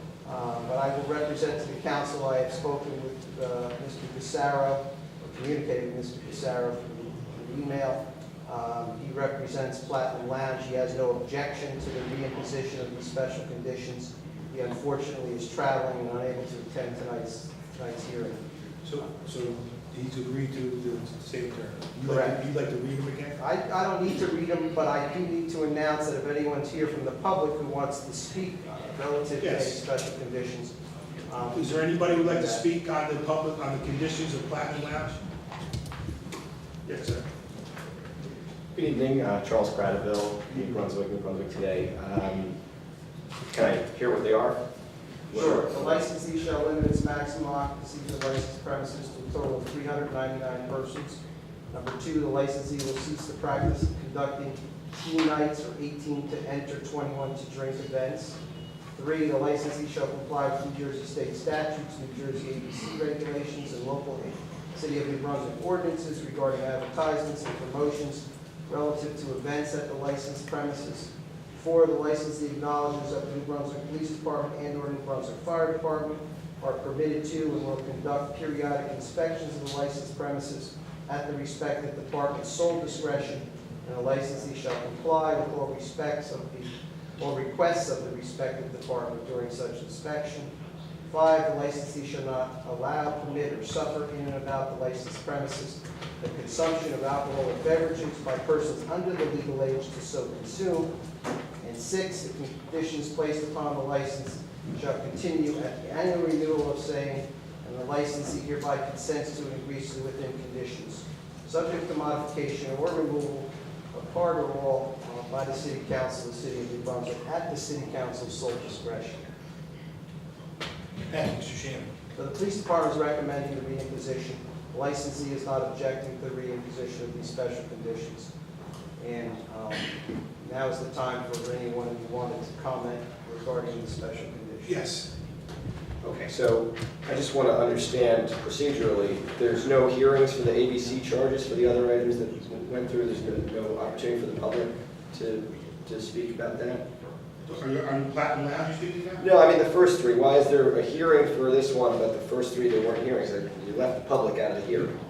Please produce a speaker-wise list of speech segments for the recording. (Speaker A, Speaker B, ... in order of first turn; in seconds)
Speaker A: 0.2-18.5, 22.1-22.4, 23.4-30.7, 31.3-32.6, 45.3-51.2, 51.7-58.4, 58.9-90.5, 91.1-100.9, 101.6-119.3, 122.1-128.3, 129.0-134.8
Speaker B: 18.8-23.4, 29.4-29.8, 31.5-35.2, 36.9-37.2, 121.1-121.9, 134.6-135.1, 147.5-149.2
Speaker C: 38.7-42.5, 43.5-44.6, 45.3-45.8, 136.0-146.8, 149.2-154.9